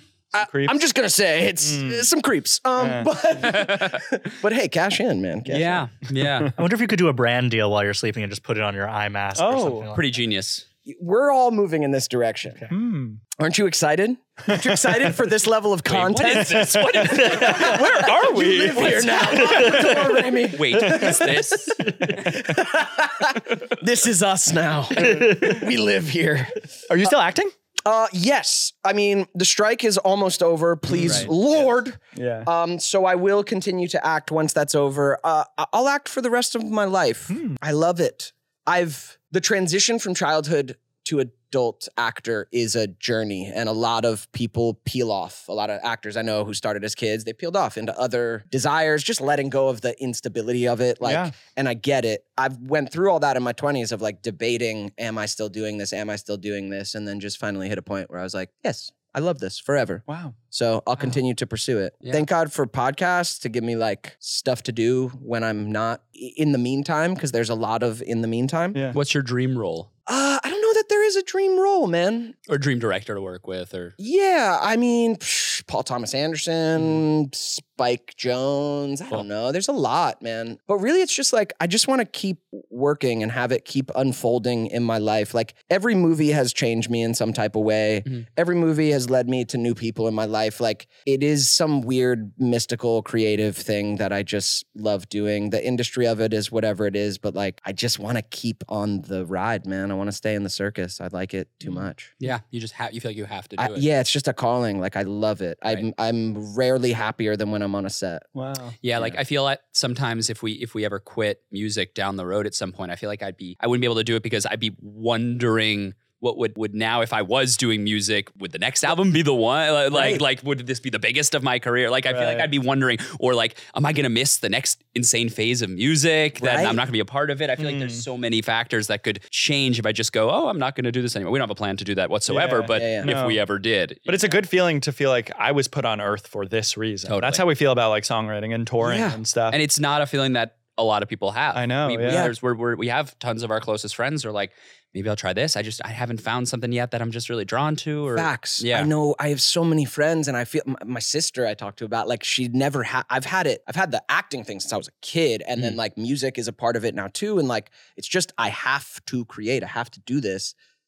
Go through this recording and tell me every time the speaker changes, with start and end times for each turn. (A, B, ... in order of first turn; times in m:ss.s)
0:00.3-0:05.9 A
0:00.4-0:00.7 B
0:01.6-0:02.1 B
0:02.8-0:03.1 B
0:03.4-0:04.0 C
0:05.5-0:06.5 C
0:06.6-0:10.0 D
0:09.4-0:09.8 B
0:09.9-0:10.6 C
0:10.8-0:12.6 A
0:12.7-0:13.2 B
0:13.4-0:27.1 A
0:15.9-0:19.9 C
0:16.3-0:19.1 B
0:19.4-0:20.0 D
0:20.5-0:22.4 C
0:20.8-0:21.3 B
0:25.0-0:25.6 D
0:25.1-0:25.5 B
0:26.9-0:27.5 B
0:27.8-1:08.8 A
0:30.9-0:31.3 C
0:31.0-0:31.3 B
0:32.1-0:32.5 B
0:37.3-0:37.6 B
0:51.0-0:51.3 B
1:00.1-1:00.4 B
1:08.9-1:09.9 C
1:10.1-1:12.3 A
1:12.5-1:13.9 C
1:14.0-1:42.1 A
1:42.2-1:43.8 C
1:43.6-1:48.3 A
1:48.3-1:48.7 B
1:48.8-2:14.4 C
1:59.9-2:00.2 A
2:02.1-2:02.5 B
2:06.4-2:06.8 A
2:07.6-2:08.0 B
2:12.3-2:13.4 B
2:12.7-2:13.1 A
2:14.0-2:19.6 B
2:17.0-2:17.4 C
2:18.8-2:19.2 A
2:19.5-2:28.9 C
2:21.5-2:22.3 B
2:22.0-2:22.3 A
2:28.1-2:40.5 A